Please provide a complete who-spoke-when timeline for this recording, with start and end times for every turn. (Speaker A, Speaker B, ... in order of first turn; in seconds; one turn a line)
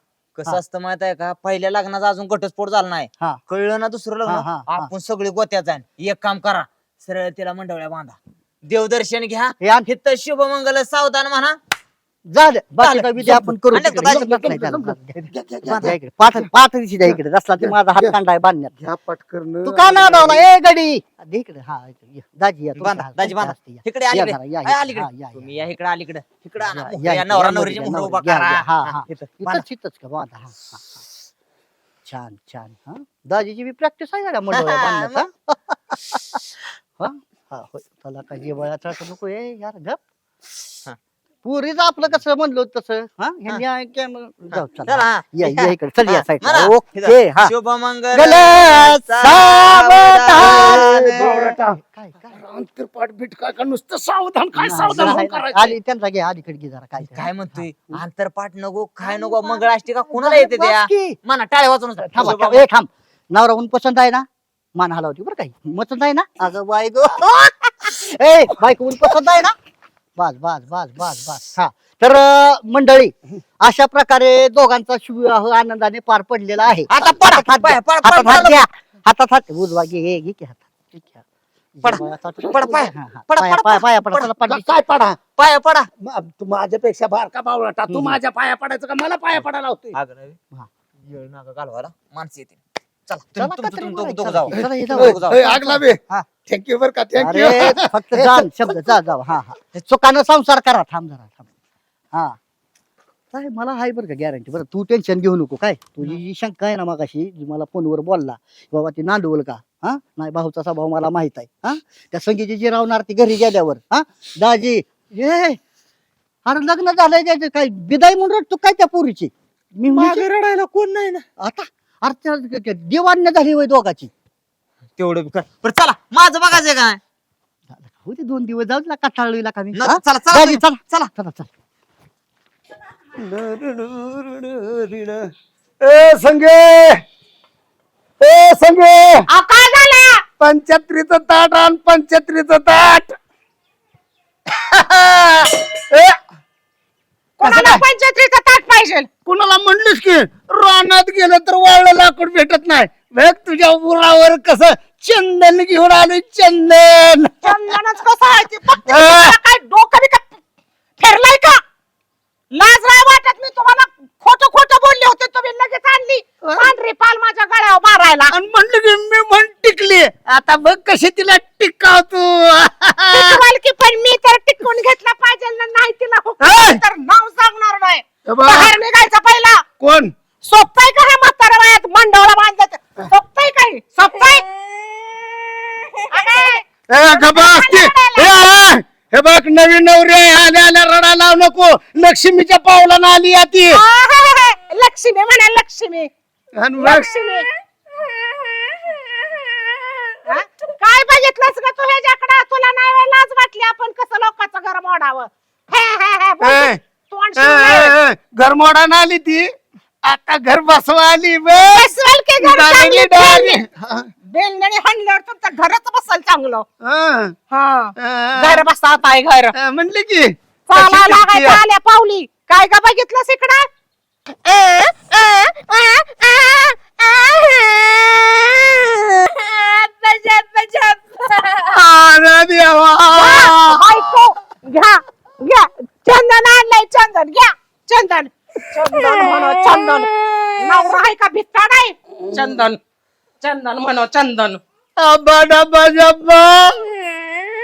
Speaker A: 0.4-11.6
Speaker B: 4.3-4.9
Speaker B: 9.6-9.9
Speaker B: 12.3-18.7
Speaker A: 12.8-14.3
Speaker C: 14.1-16.5
Speaker C: 17.1-18.1
Speaker C: 18.8-20.4
Speaker B: 19.6-25.6
Speaker A: 22.8-29.6
Speaker B: 26.6-30.9
Speaker B: 32.1-40.0
Speaker A: 34.5-35.2
Speaker B: 41.5-47.5
Speaker A: 44.5-51.5
Speaker B: 48.1-52.4
Speaker C: 50.3-51.8
Speaker C: 52.3-55.8
Speaker B: 54.6-57.3
Speaker A: 54.7-55.2
Speaker A: 57.0-62.6
Speaker B: 59.0-61.2
Speaker B: 62.1-69.5
Speaker B: 70.2-81.2
Speaker A: 76.9-78.7
Speaker B: 81.8-84.7
Speaker A: 81.8-84.3
Speaker C: 84.5-85.2
Speaker A: 85.4-85.9
Speaker C: 86.0-90.0
Speaker A: 89.9-90.4
Speaker A: 91.1-92.6
Speaker A: 93.1-95.4
Speaker B: 93.4-96.3
Speaker C: 94.5-98.7
Speaker B: 97.2-101.5
Speaker B: 103.3-115.6
Speaker B: 116.5-120.3
Speaker A: 119.9-121.2
Speaker B: 121.4-124.1
Speaker A: 125.0-127.0
Speaker B: 127.7-131.5
Speaker A: 129.8-131.1
Speaker C: 133.2-137.0
Speaker C: 138.2-139.3
Speaker D: 139.3-140.2
Speaker C: 140.4-143.2
Speaker C: 144.5-146.2
Speaker D: 147.4-149.1
Speaker C: 147.4-147.8
Speaker C: 149.3-157.8
Speaker D: 157.4-160.4
Speaker C: 158.8-159.3
Speaker D: 161.0-161.6
Speaker D: 162.5-168.3
Speaker C: 166.4-166.7
Speaker C: 168.3-173.4
Speaker D: 173.1-179.6
Speaker C: 176.4-176.8
Speaker C: 178.3-178.7
Speaker C: 179.8-180.1
Speaker D: 180.4-184.5
Speaker D: 186.1-188.4
Speaker C: 186.9-193.8
Speaker D: 193.7-196.1
Speaker C: 196.6-197.3
Speaker D: 196.8-197.5
Speaker D: 200.2-207.9
Speaker C: 206.4-206.8
Speaker C: 207.4-209.5
Speaker C: 210.0-214.1
Speaker D: 211.5-213.6
Speaker D: 214.3-216.7
Speaker C: 216.8-217.4
Speaker D: 217.5-219.5
Speaker C: 218.0-218.7
Speaker C: 219.6-221.6
Speaker D: 220.7-223.7
Speaker D: 224.5-228.9
Speaker D: 229.6-230.9
Speaker C: 231.7-234.2
Speaker D: 233.1-242.8
Speaker C: 239.0-240.3
Speaker C: 242.2-242.6
Speaker D: 243.4-244.6
Speaker C: 245.0-246.9